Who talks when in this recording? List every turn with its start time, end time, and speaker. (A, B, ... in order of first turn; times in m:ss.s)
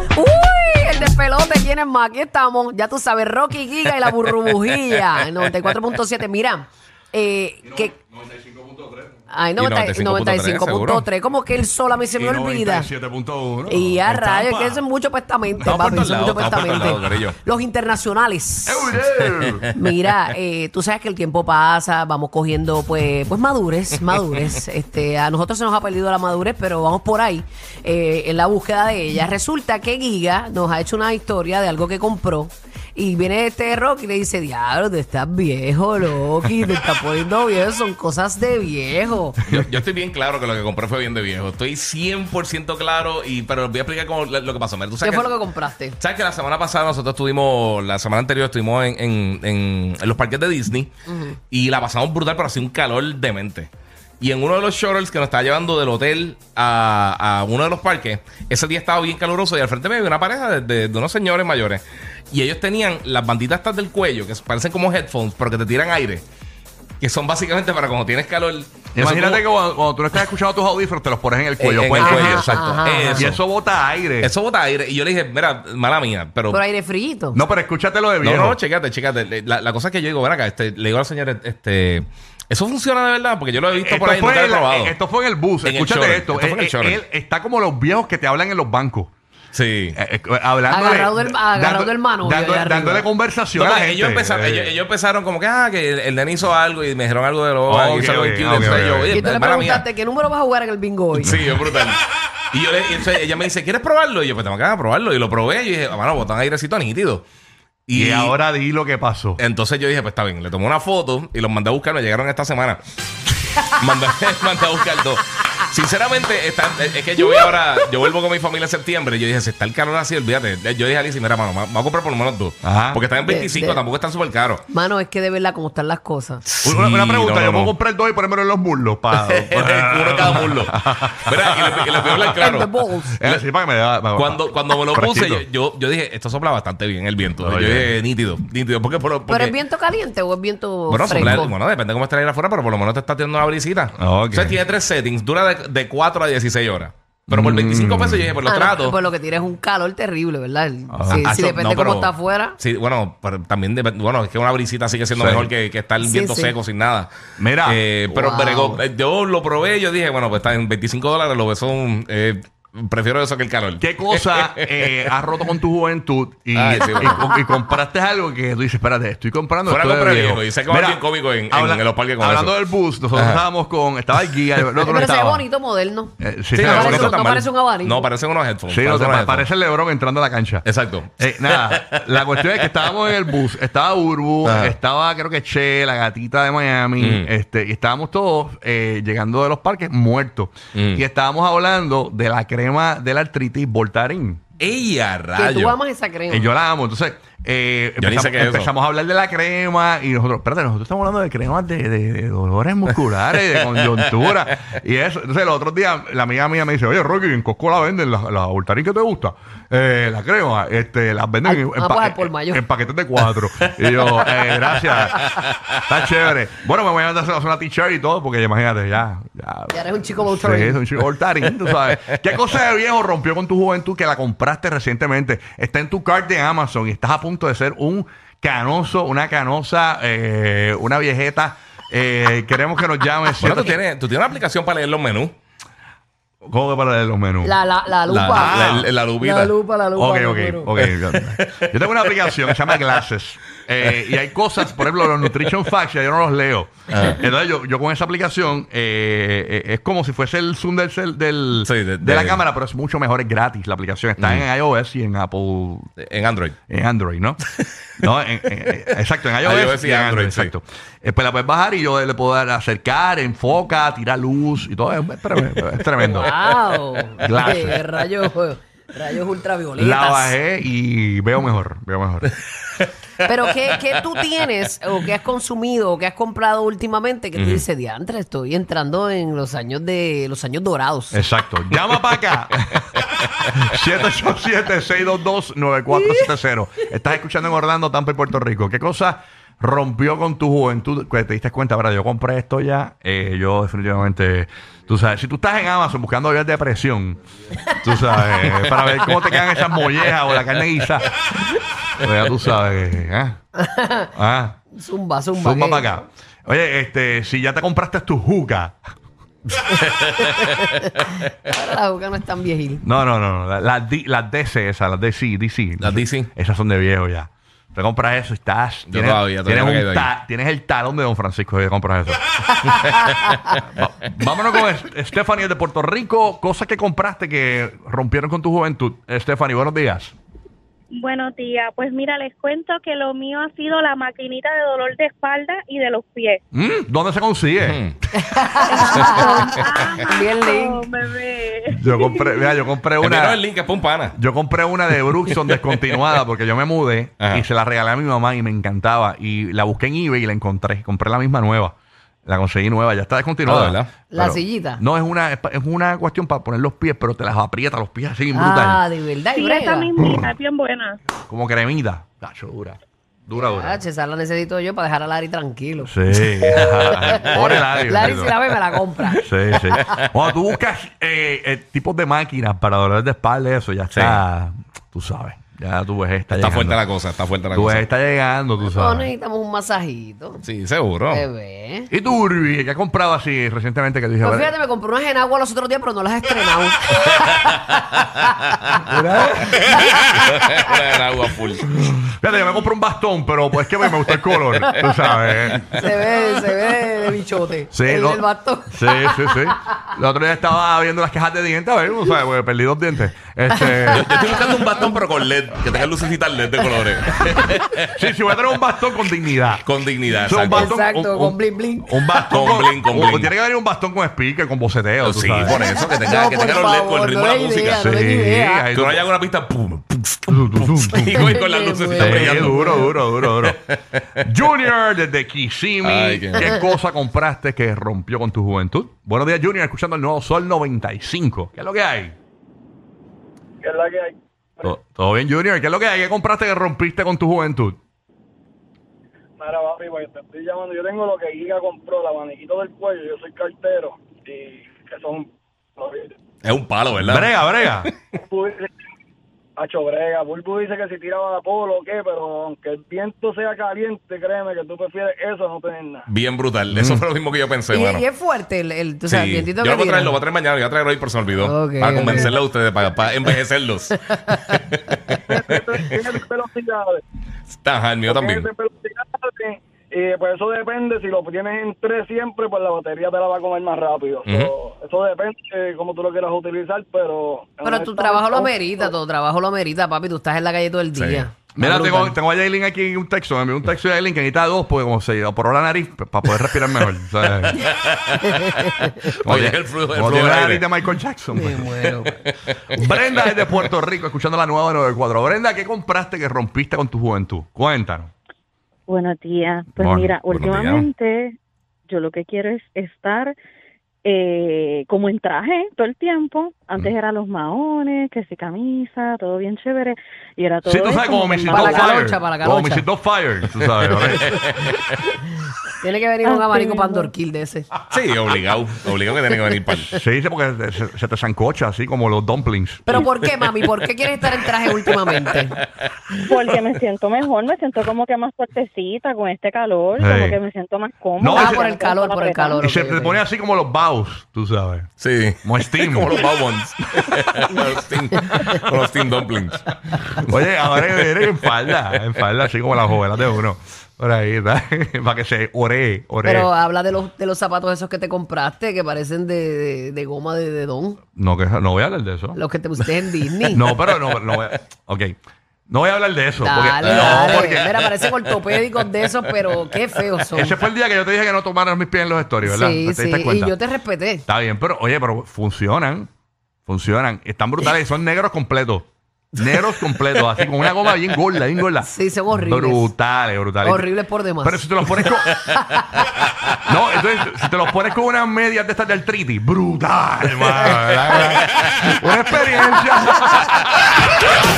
0:00.1-0:07.9 A
0:07.6-0:09.2 B
0:09.3-0:12.9 A
0:09.6-0:11.0 C
0:12.1-0:14.8 B
0:13.7-0:19.0 A
0:15.6-0:17.4 C
0:18.7-0:19.7 B
0:19.7-0:39.4 A
0:39.4-0:45.4 C
0:45.0-0:46.0 A
0:46.0-0:50.9 C
0:51.1-0:51.4 A
0:51.5-1:06.2 C
1:07.0-1:09.4 C
1:08.9-1:14.3 B
1:11.6-1:13.4 C
1:12.0-1:13.3 A
1:14.2-1:16.6 C
1:16.5-1:17.4 A
1:17.3-1:18.6 B
1:18.2-1:25.0 C
1:23.7-1:29.1 B
1:25.6-1:27.0 C
1:29.5-1:30.0 C
1:30.0-1:34.7 B
1:30.7-1:33.1 A
1:33.6-1:39.8 C
1:37.7-1:39.1 B
1:39.1-1:41.4 A
1:41.2-1:42.0 C
1:41.3-1:41.6 B
1:42.5-1:47.3 C
1:47.9-1:48.4 C
1:47.9-1:49.4 B
1:49.4-1:52.8 C
1:53.5-2:04.6 C
2:02.6-2:03.0 B
2:03.2-2:03.8 A
2:04.7-2:06.4 A
2:06.4-2:07.7 C
2:06.6-2:12.5 B
2:09.2-2:12.7 C
2:12.4-2:13.2 A
2:13.1-2:15.5 B
2:14.2-2:19.6 C
2:17.4-2:18.0 B
2:19.3-2:21.6 A
2:20.9-2:29.0 C
2:21.1-2:21.5 B
2:24.0-2:24.6 B
2:27.3-2:28.3 B
2:28.4-2:32.6 A
2:30.9-2:31.4 B
2:31.1-2:37.1 C
2:35.1-2:35.5 B
2:36.0-2:36.6 A
2:37.4-2:37.8 B
2:37.6-2:44.9 C
2:38.1-2:38.8 A
2:43.8-2:55.5 B
2:46.6-2:47.3 C
2:49.7-2:52.6 C
2:53.1-2:53.4 C
2:54.8-2:58.1 A
2:56.2-2:57.2 B
2:56.6-2:59.5 C
2:58.7-3:00.6 B
3:00.6-3:02.4 C
3:01.2-3:14.4 B
3:04.4-3:04.8 C
3:07.0-3:07.3 C
3:10.7-3:11.0 C
3:14.6-3:15.8 C
3:15.4-3:16.5 A
3:16.3-3:53.8 B
3:18.0-3:18.7 C
3:23.6-3:23.8 C
3:31.4-3:32.6 A
3:39.7-3:40.8 A
3:53.4-3:55.3 C
3:56.5-3:57.6 B
3:57.4-4:00.7 A
3:58.1-3:59.5 C
3:58.2-3:58.9 B
4:00.0-4:15.9 B
4:01.2-4:01.7 C
4:06.9-4:07.2 C
4:11.6-4:12.4 C
4:14.2-4:14.5 C
4:16.0-4:16.6 C
4:16.7-4:17.4 B
4:18.0-4:26.4 B
4:19.4-4:20.5 C
4:26.0-4:30.4 A
4:27.2-4:27.8 B
4:29.8-4:32.3 B
4:33.2-4:41.2 A
4:37.4-4:37.6 C
4:41.1-4:57.2 B
4:57.8-5:03.4 B
4:58.4-4:58.9 C
5:03.6-5:04.1 A
5:04.2-5:04.6 B
5:04.7-5:05.9 A
5:05.4-5:08.8 B
5:10.0-5:10.9 A
5:10.0-5:10.6 C
5:11.4-5:12.8 A
5:12.8-5:22.2 B
5:15.8-5:16.3 C
5:18.9-5:20.1 C
5:23.0-5:23.6 C
5:23.6-5:30.2 B
5:31.0-5:36.4 D
5:36.5-5:37.8 B
5:37.6-5:38.0 C
5:38.2-5:40.8 A
5:38.6-5:42.6 D
5:39.0-5:39.6 C
5:41.7-5:43.4 B
5:43.0-5:44.2 C
5:44.2-5:58.8 B
5:45.2-5:46.0 C
5:47.2-5:47.5 C
5:53.4-5:53.9 C
5:54.1-5:54.8 A
5:58.3-5:59.9 A
5:59.3-6:01.0 D
6:01.3-6:03.8 B
6:03.4-6:09.8 A
6:05.8-6:08.4 B
6:09.2-6:16.8 B
6:13.9-6:14.2 C
6:16.3-6:17.9 C
6:17.5-6:19.1 B
6:18.6-6:20.4 A
6:20.4-6:21.2 C
6:21.1-6:21.9 A
6:21.9-6:24.5 B
6:24.2-6:28.1 A
6:27.2-6:27.8 C
6:28.9-6:29.9 B
6:29.6-6:31.6 C
6:31.7-6:35.8 B
6:35.7-6:39.5 A
6:37.7-6:44.2 B
6:43.5-6:44.0 A
6:43.9-6:47.9 C
6:47.9-6:49.6 B
6:49.6-6:50.7 C
6:50.2-6:55.6 B
6:50.4-6:52.7 A
6:52.3-6:53.3 C
6:55.0-6:57.9 C
6:55.4-6:58.7 A
6:57.6-6:59.0 B
6:58.7-7:04.0 C
7:00.3-7:01.4 B
7:01.0-7:02.9 A
7:02.0-7:03.6 B
7:04.2-7:12.2 B
7:05.8-7:06.6 C
7:13.6-7:14.7 E
7:14.6-7:17.8 B
7:19.4-7:26.1 E
7:26.4-7:27.9 C
7:27.0-7:27.9 B
7:28.3-7:28.7 E
7:29.6-7:36.0 E
7:36.1-7:38.1 C
7:36.7-7:37.0 B
7:37.7-7:40.2 A
7:39.1-7:46.1 C
7:41.4-7:42.4 A
7:44.1-7:44.4 A
7:45.3-7:47.0 E
7:47.6-7:48.5 C
7:48.1-7:58.5 E
7:54.2-7:54.5 C
7:57.6-8:02.2 A
8:00.9-8:01.3 C
8:01.6-8:07.7 B
8:07.4-8:10.7 C
8:09.2-8:11.7 B
8:11.3-8:12.2 A
8:11.8-8:12.9 C
8:12.7-8:18.1 B
8:18.9-8:21.4 F
8:19.8-8:20.2 B
8:20.3-8:20.9 C
8:21.9-8:23.4 F
8:24.0-8:32.0 F
8:30.6-8:34.4 B
8:31.5-8:32.9 A
8:33.8-8:34.9 C
8:34.2-8:34.6 A
8:35.8-8:37.7 A
8:36.2-8:37.1 F
8:37.9-8:40.0 C
8:39.9-8:43.0 B
8:42.9-8:45.6 A
8:44.7-8:45.4 C
8:46.2-8:52.6 F
8:50.0-8:50.4 B
8:51.2-8:51.6 B
8:51.3-8:53.2 A
8:52.6-8:54.9 B
8:55.0-9:00.2 C
8:55.4-8:56.2 B
8:57.1-8:57.5 B
9:00.2-9:06.5 B
9:00.8-9:01.4 C
9:06.2-9:11.0 A
9:11.2-9:12.4 B
9:12.4-9:13.7 A
9:13.5-9:15.2 B
9:15.7-9:17.8 B
9:16.4-9:20.6 A
9:16.8-9:18.6 C
9:19.1-9:19.8 C
9:20.3-9:23.6 B
9:22.4-9:24.2 A
9:24.3-9:26.1 B
9:26.7-9:35.5 B
9:31.8-9:32.9 A
9:33.6-9:35.8 A
9:36.6-9:43.8 B